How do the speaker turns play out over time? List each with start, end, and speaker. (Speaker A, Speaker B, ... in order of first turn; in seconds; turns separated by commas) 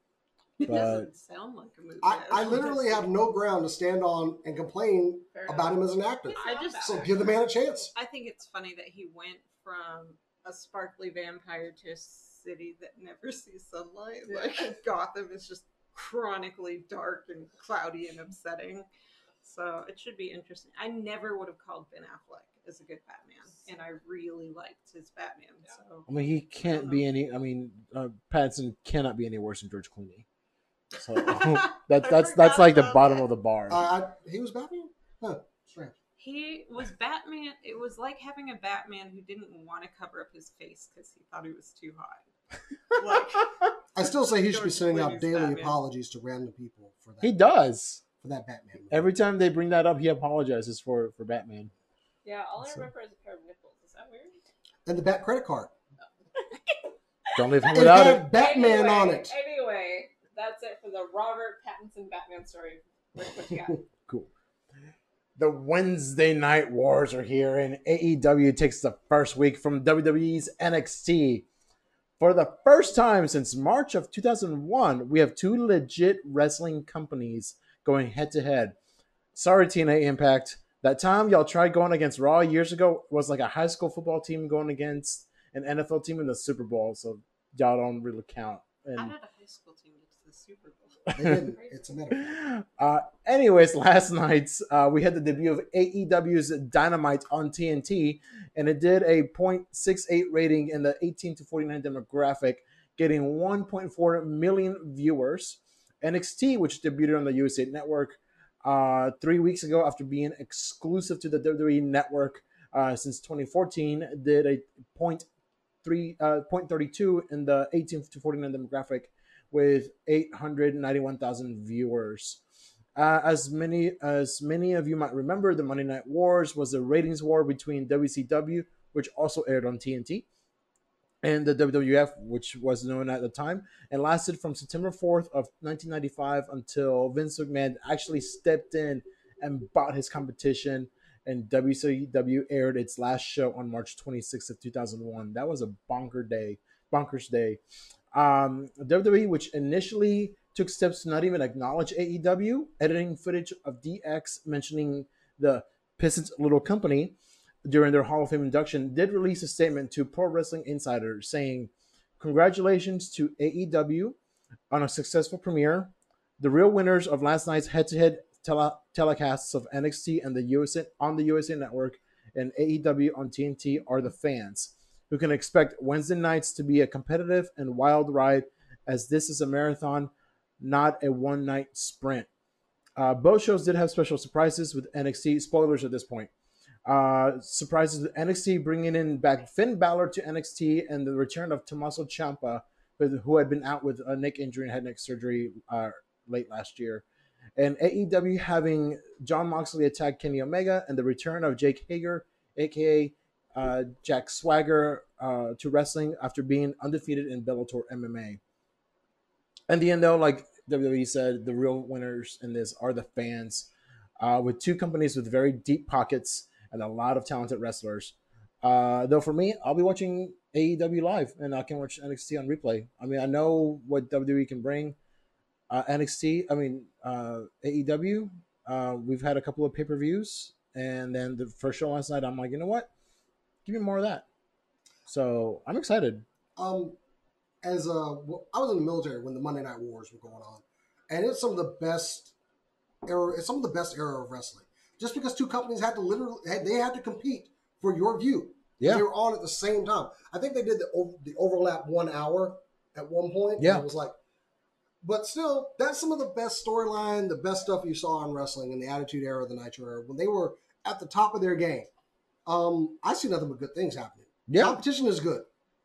Speaker A: 0.6-3.0, Speaker B: 0.6-1.1, Speaker C: 2.0-7.9, Speaker D: 5.3-7.2, Speaker A: 6.3-7.4, Speaker A: 7.9-18.9, Speaker D: 14.3-14.7, Speaker A: 19.4-27.1, Speaker B: 26.1-30.2, Speaker B: 30.9-33.9, Speaker A: 31.2-33.3, Speaker C: 33.7-36.0, Speaker A: 36.2-42.3, Speaker A: 43.0-43.6, Speaker C: 44.0-47.4, Speaker A: 44.2-45.8, Speaker B: 47.2-48.0, Speaker C: 48.2-49.1, Speaker B: 48.9-51.7, Speaker D: 52.2-54.4, Speaker C: 54.9-55.7, Speaker B: 57.4-58.3, Speaker C: 57.7-59.3, Speaker D: 58.3-63.8, Speaker B: 65.4-71.5, Speaker B: 72.2-78.8, Speaker B: 79.3-89.1, Speaker A: 89.0-91.0, Speaker B: 91.1-91.4, Speaker C: 91.1-92.4, Speaker D: 91.3-91.9, Speaker B: 92.1-115.3, Speaker B: 115.8-122.4, Speaker B: 123.0-130.3, Speaker B: 131.2-147.6, Speaker B: 148.1-164.2, Speaker B: 164.7-182.3, Speaker B: 183.0-186.3, Speaker B: 186.9-197.1, Speaker B: 197.6-208.4, Speaker B: 209.7-225.0, Speaker B: 225.7-232.9, Speaker B: 233.7-234.3, Speaker B: 235.1-236.2, Speaker C: 236.6-237.0, Speaker C: 237.6-242.3, Speaker C: 243.1-254.2, Speaker B: 248.8-249.1, Speaker B: 253.6-253.8, Speaker C: 255.0-261.9, Speaker C: 262.5-265.5, Speaker B: 264.5-264.8